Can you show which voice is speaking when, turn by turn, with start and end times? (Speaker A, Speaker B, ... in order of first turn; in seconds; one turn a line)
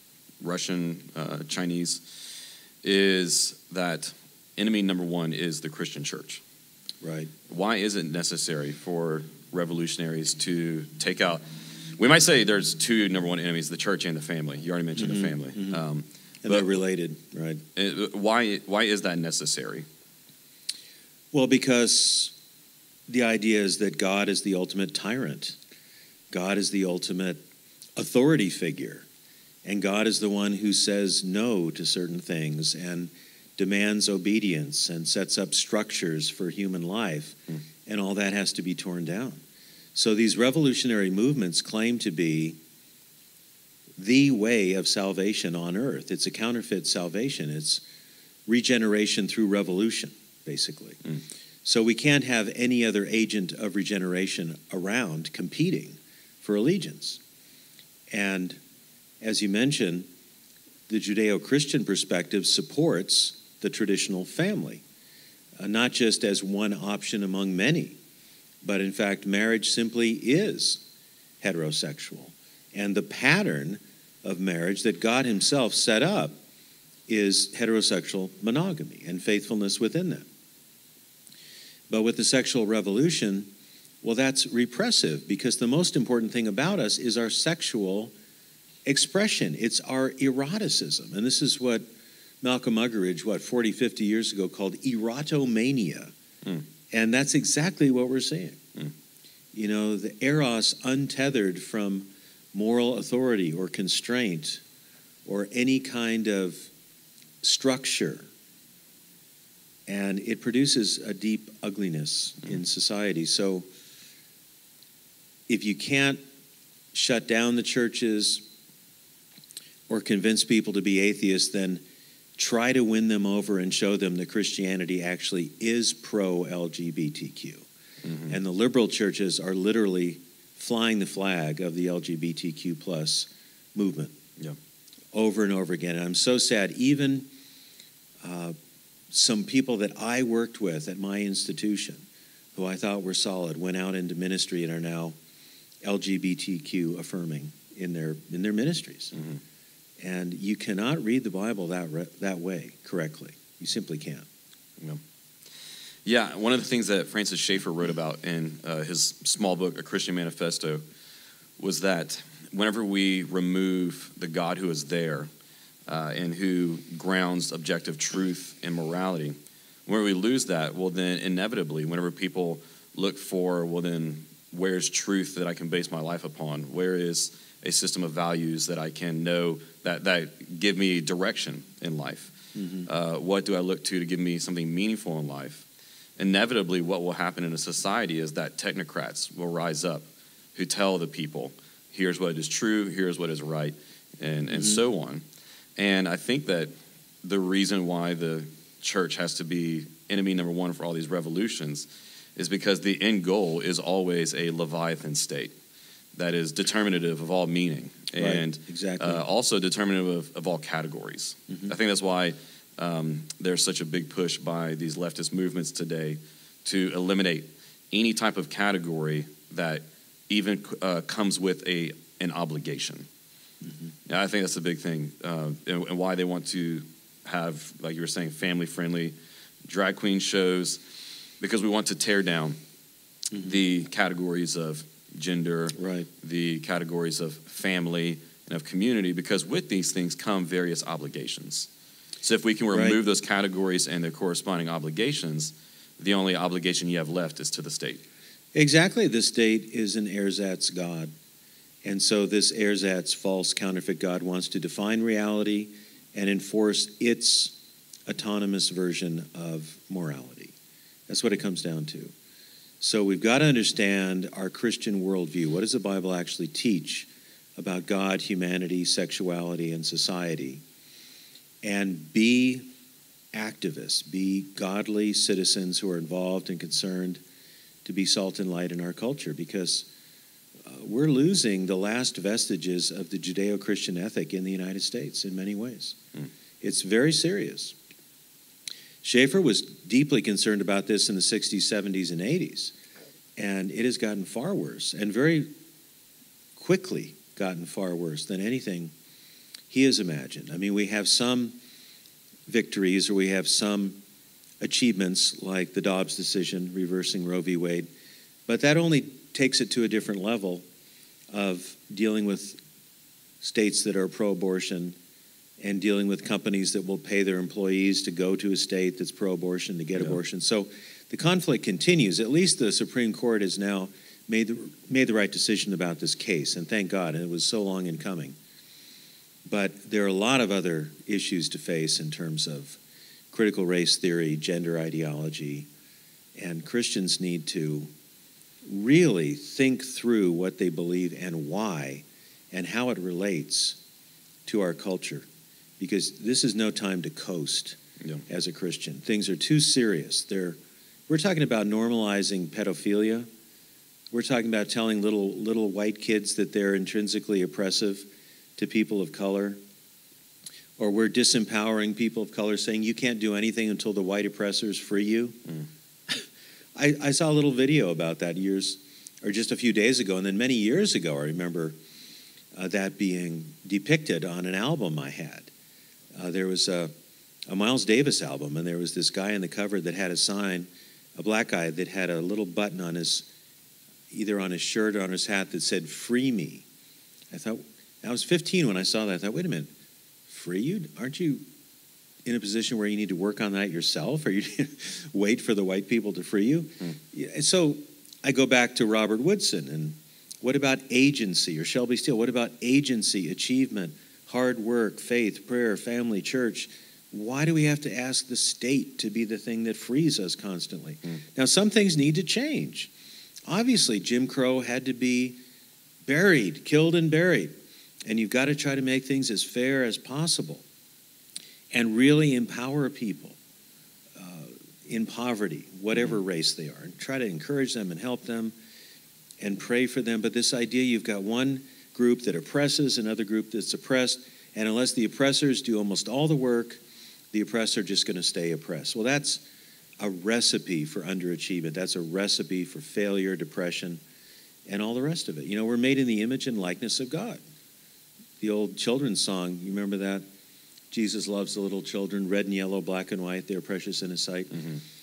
Speaker A: 0.4-2.0
Speaker A: 2.8-6.4
Speaker B: 7.0-7.3
Speaker A: 7.5-11.4
Speaker A: 12.0-16.6
Speaker B: 15.0-15.8
Speaker B: 16.4-17.6
Speaker A: 17.8-19.9
Speaker B: 21.3-22.4
Speaker B: 23.1-25.6
Speaker B: 26.3-27.4
Speaker B: 28.0-29.1
Speaker B: 29.6-39.4
Speaker B: 40.0-42.6
Speaker B: 44.0-47.8
Speaker B: 48.5-51.0
Speaker B: 51.6-57.2
Speaker B: 58.1-58.6
Speaker B: 59.2-60.1
Speaker B: 60.9-64.8
Speaker B: 65.6-68.0
Speaker B: 68.6-70.8
Speaker B: 71.4-76.4
Speaker B: 77.1-80.3
Speaker B: 81.9-83.5
Speaker B: 84.0-88.1
Speaker B: 88.8-91.8
Speaker B: 92.4-96.1
Speaker B: 96.9-98.6
Speaker B: 99.5-104.6
Speaker B: 105.2-106.7
Speaker B: 107.4-108.3
Speaker B: 109.9-113.7
Speaker B: 115.5-116.2
Speaker B: 116.9-118.5
Speaker B: 119.9-121.8
Speaker B: 122.4-127.7
Speaker A: 128.0-128.3
Speaker B: 128.3-134.2
Speaker B: 135.1-137.3
Speaker B: 138.2-138.5
Speaker B: 139.1-145.2
Speaker B: 145.8-149.2
Speaker B: 150.0-154.3
Speaker A: 156.1-160.8
Speaker A: 161.6-165.3
Speaker A: 165.9-185.7
Speaker B: 182.6-182.9
Speaker A: 186.2-195.2
Speaker B: 194.5-194.8
Speaker A: 195.8-196.7
Speaker A: 197.2-205.5
Speaker A: 206.2-223.1
Speaker B: 208.2-209.2
Speaker B: 223.6-223.9
Speaker A: 224.1-229.2
Speaker A: 229.7-230.8
Speaker A: 231.4-232.6
Speaker A: 233.3-241.7
Speaker B: 235.8-236.1
Speaker A: 242.2-248.0
Speaker B: 242.7-243.0
Speaker B: 248.5-251.1
Speaker B: 251.8-257.6
Speaker B: 258.1-260.6
Speaker B: 261.1-262.1
Speaker B: 262.8-270.6
Speaker B: 271.6-272.7
Speaker B: 273.3-277.2
Speaker B: 277.9-279.9
Speaker B: 280.6-286.0
Speaker B: 286.6-287.8
Speaker B: 289.0-292.7
Speaker B: 293.4-295.5
Speaker B: 296.6-298.9
Speaker B: 299.7-301.6
Speaker B: 302.5-304.0
Speaker B: 304.6-307.9
Speaker B: 308.5-310.6
Speaker B: 311.3-312.6
Speaker B: 313.4-315.0
Speaker B: 315.6-328.4
Speaker B: 329.4-332.8
Speaker B: 333.3-335.7
Speaker B: 336.4-337.9
Speaker B: 338.6-343.8
Speaker B: 344.4-345.3
Speaker B: 345.8-353.3
Speaker B: 354.1-359.6
Speaker B: 360.8-365.4
Speaker B: 366.8-371.8
Speaker B: 372.5-375.5
Speaker B: 376.1-376.9
Speaker B: 377.5-383.3
Speaker B: 384.1-386.6
Speaker B: 387.3-389.7
Speaker B: 390.3-391.4
Speaker B: 392.2-412.9
Speaker B: 413.5-415.4
Speaker B: 416.1-417.5
Speaker B: 418.1-420.6
Speaker B: 421.7-423.4
Speaker B: 424.1-428.5
Speaker B: 429.4-436.8
Speaker B: 437.3-439.4
Speaker B: 440.0-444.0
Speaker B: 444.7-447.4
Speaker B: 448.4-450.2
Speaker B: 450.9-454.6